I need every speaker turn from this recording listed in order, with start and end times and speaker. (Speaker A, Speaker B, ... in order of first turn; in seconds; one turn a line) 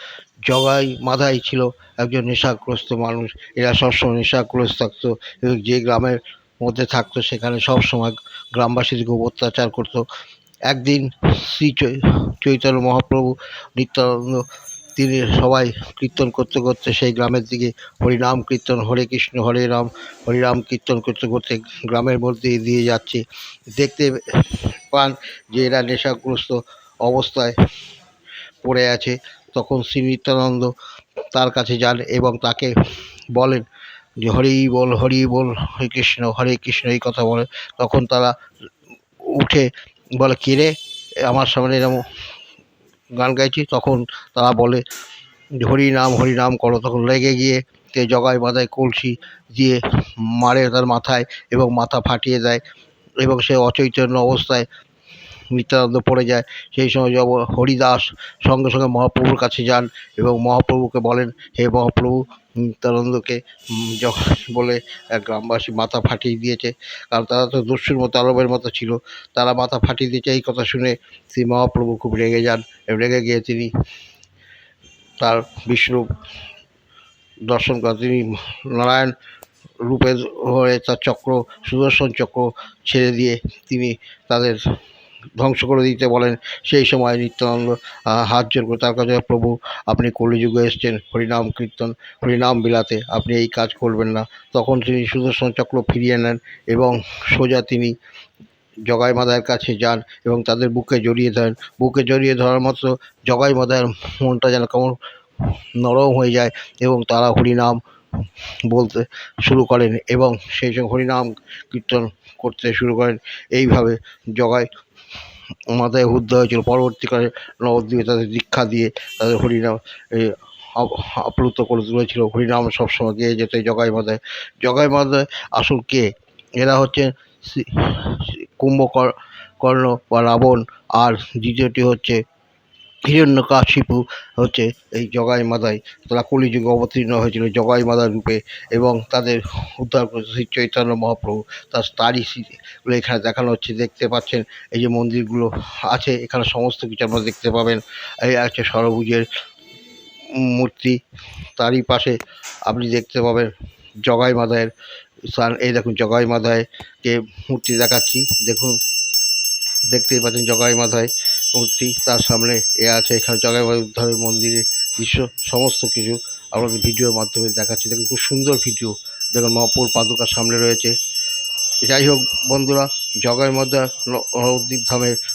Speaker A: 0.4-10.1
Speaker A: 10.7-23.2
Speaker A: 23.7-27.6
Speaker A: 28.6-30.7
Speaker A: 31.3-32.7
Speaker A: 33.3-33.6
Speaker A: 34.2-38.3
Speaker A: 39.3-42.0
Speaker A: 43.1-44.8
Speaker A: 45.6-52.6
Speaker A: 53.2-54.7
Speaker A: 55.5-73.7
Speaker A: 75.2-76.2
Speaker A: 77.5-79.1
Speaker A: 79.8-84.6
Speaker A: 85.4-98.0
Speaker A: 98.9-114.7
Speaker A: 115.7-132.2
Speaker A: 133.1-149.2
Speaker A: 150.3-151.0
Speaker A: 151.6-153.5
Speaker A: 154.0-154.7
Speaker A: 155.3-158.8
Speaker A: 159.9-170.9
Speaker A: 171.8-175.2